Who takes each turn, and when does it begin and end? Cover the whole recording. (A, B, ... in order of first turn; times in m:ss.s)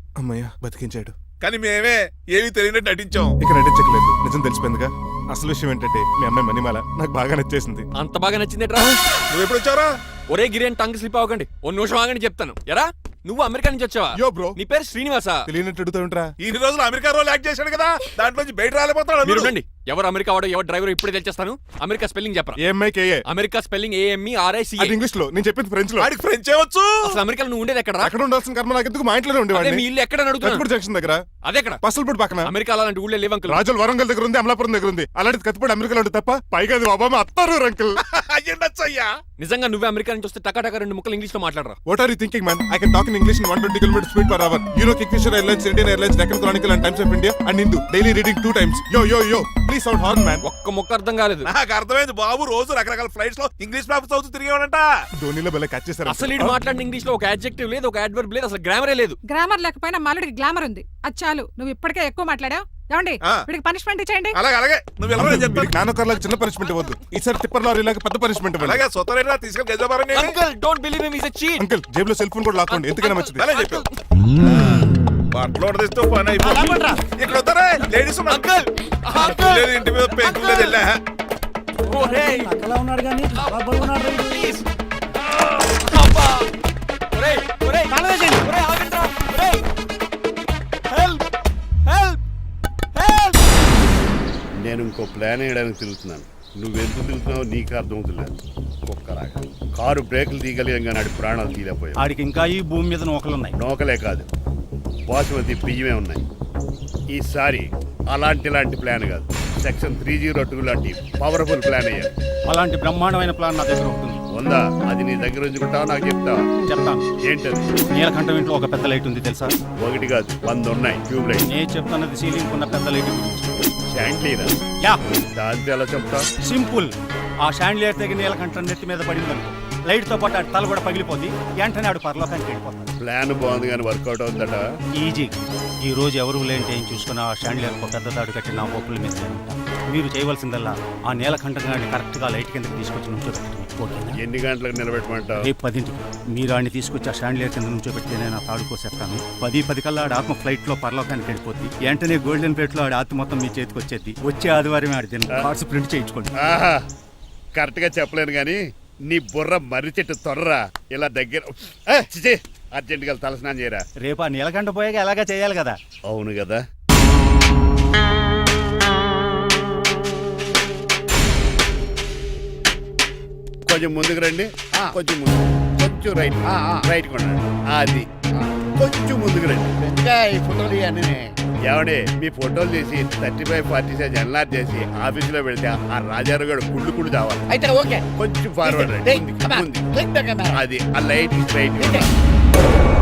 0:00.2-0:01.1 A
0:01.4-0:03.3 B
0:03.4-0:07.9 A
0:07.9-0:09.0 C
0:09.3-0:09.9 B
0:10.3-0:15.5 C
0:14.2-0:14.6 A
0:15.5-0:16.3 A
0:16.4-0:19.5 B
0:19.2-0:22.6 C
0:22.6-0:23.2 A
0:23.3-0:25.0 C
0:24.8-0:26.1 A
0:26.0-0:27.0 B
0:27.0-0:28.1 C
0:28.0-0:29.8 A
0:29.5-0:30.6 C
0:30.4-0:31.2 A
0:31.4-0:31.8 C
0:31.8-0:32.5 A
0:32.4-0:33.6 C
0:33.5-0:38.0 A
0:38.0-0:39.1 B
0:39.4-0:41.8 C
0:41.8-0:50.4 A
0:50.4-0:51.5 C
0:51.5-0:54.8 B
0:55.2-0:56.6 A
0:56.0-0:59.2 C
0:59.3-1:04.4 D
1:04.3-1:05.7 B
1:05.2-1:08.8 A
1:08.6-1:10.3 B
1:10.1-1:11.6 C
1:11.6-1:13.4 A
1:12.7-1:13.9 C
1:13.4-1:13.8 B
1:14.5-1:18.5 B
1:16.5-1:16.9 E
1:18.3-1:20.7 C
1:19.2-1:21.0 B
1:21.9-1:22.6 C
1:21.9-1:24.5 E
1:23.3-1:24.6 C
1:25.4-1:26.5 C
1:27.1-1:29.6 C
1:30.9-1:31.2 C
1:31.9-1:32.2 C
1:33.0-1:33.3 C
1:34.6-1:38.4 F
1:38.9-1:42.0 F
1:42.0-1:43.5 E
1:43.6-1:44.3 F
1:45.1-1:46.2 F
1:47.1-1:52.1 F
1:52.5-1:54.2 E
1:54.3-1:56.4 F
1:56.6-1:57.0 E
1:57.2-1:57.8 F
1:57.9-1:59.5 E
1:59.8-2:01.5 F
2:01.4-2:03.5 E
2:03.9-2:04.5 F
2:05.3-2:06.3 F
2:06.4-2:12.9 E
2:13.0-2:14.7 F
2:15.0-2:24.2 E
2:24.2-2:25.5 F
2:25.4-2:36.3 E
2:36.4-2:36.8 F
2:37.5-2:43.8 F
2:44.0-2:45.8 E
2:46.1-2:46.6 F
2:53.7-2:58.1 F
2:56.4-2:56.8 G
2:58.7-2:59.8 F
2:59.8-3:01.2 G
3:01.7-3:07.4 F
3:07.5-3:08.0 G
3:08.2-3:09.8 F
3:08.6-3:10.6 G
3:10.5-3:12.1 F
3:11.8-3:12.1 G